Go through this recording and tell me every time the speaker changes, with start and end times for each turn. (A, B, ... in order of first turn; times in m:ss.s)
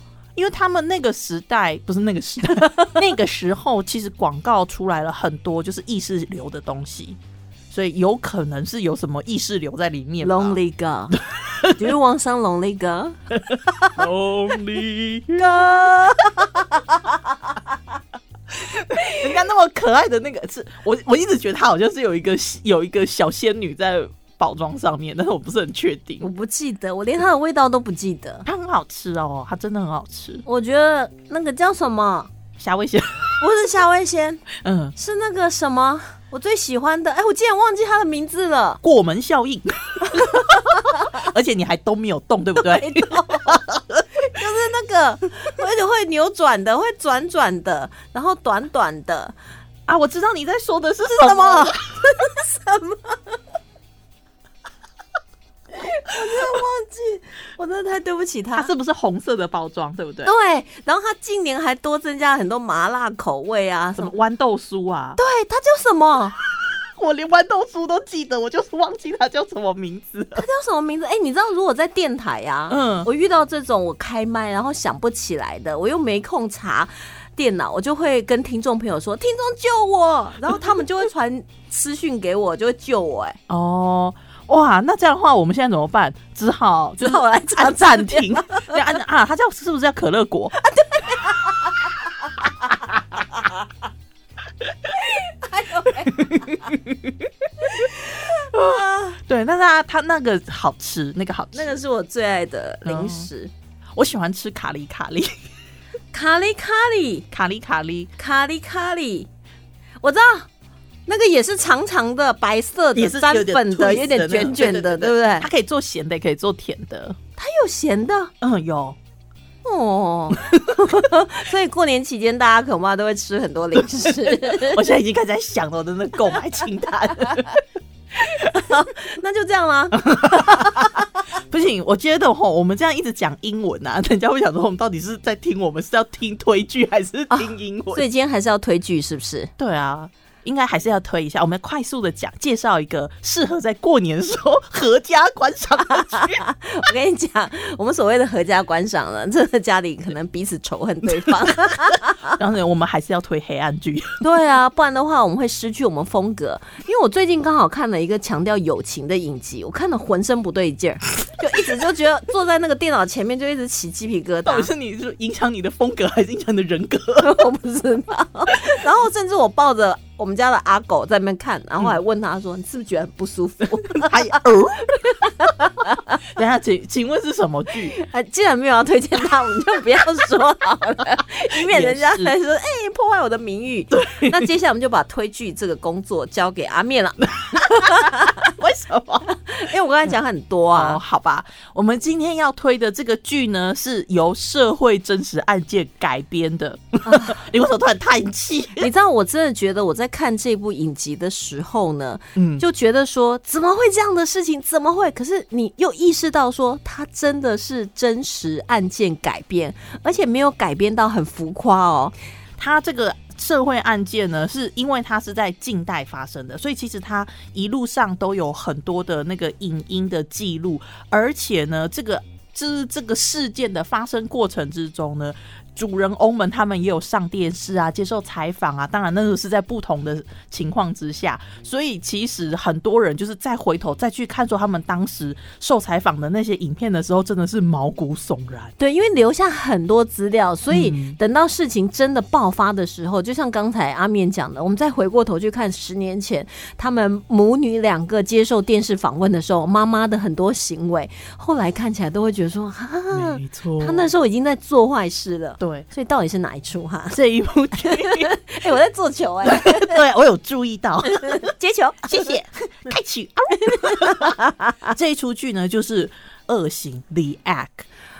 0:00.4-0:07.2 A
0:07.7-0:10.6 A
0:10.2-0:13.2 B
0:11.5-0:11.8 A
0:13.5-0:15.7 A
0:13.7-0:13.9 B
0:15.4-0:17.2 B
0:19.0-0:19.2 B
0:19.0-0:26.3 A
0:26.2-0:28.5 B
0:28.4-0:30.4 A
0:30.4-0:32.3 B
0:32.6-0:33.4 A
0:33.4-0:34.4 B
0:34.6-0:35.0 A
0:35.0-0:38.8 B
0:38.8-0:44.0 A
0:40.1-0:41.1 B
0:42.6-0:43.6 B
0:44.2-0:49.3 B
0:49.9-0:51.8 A
0:51.1-0:53.4 B
0:55.7-0:58.7 B
0:58.6-1:00.3 A
1:00.2-1:04.1 B
1:04.0-1:05.2 A
1:05.2-1:06.4 B
1:06.6-1:10.4 A
1:10.4-1:23.4 B
1:12.7-1:13.1 A
1:23.5-1:30.5 A
1:27.0-1:28.9 B
1:30.6-1:31.8 B
1:32.4-1:32.7 B
1:33.3-1:33.6 B
1:35.0-1:36.7 B
1:36.1-1:37.1 A
1:37.6-1:39.2 B
1:38.5-1:41.8 A
1:41.5-1:43.5 B
1:42.8-1:43.3 A
1:44.0-1:45.4 A
1:46.1-1:47.3 B
1:47.3-1:48.1 A
1:48.2-1:49.3 B
1:50.0-1:50.5 B
1:51.1-1:55.5 B
1:53.0-1:57.2 A
1:57.4-1:58.3 B
1:58.4-1:59.0 A
1:59.6-2:04.8 B
2:00.3-2:00.9 A
2:04.1-2:07.6 A
2:08.2-2:11.0 B
2:10.0-2:18.0 A
2:17.3-2:19.5 B
2:19.6-2:26.4 A
2:26.0-2:32.4 B
2:31.2-2:34.2 A
2:34.2-2:44.7 B
2:44.5-2:47.4 A
2:47.2-2:54.4 B
2:53.8-2:55.3 A
2:55.0-2:56.2 B
2:56.3-2:58.0 A
2:57.9-3:08.5 B
3:01.5-3:02.3 A
3:03.9-3:04.5 A
3:07.5-3:09.3 A
3:09.3-3:11.0 B
3:10.8-3:18.9 A
3:17.1-3:17.4 B
3:18.8-3:32.1 B
3:22.4-3:22.6 A
3:32.6-3:58.7 A
3:58.8-4:17.2 B
4:00.7-4:01.2 A
4:13.1-4:14.1 A
4:15.6-4:15.9 A
4:17.1-4:18.4 A
4:17.8-4:20.0 B
4:19.4-4:21.5 A
4:21.1-4:22.3 B
4:22.1-4:24.4 A
4:23.6-4:24.9 B
4:24.9-4:27.9 A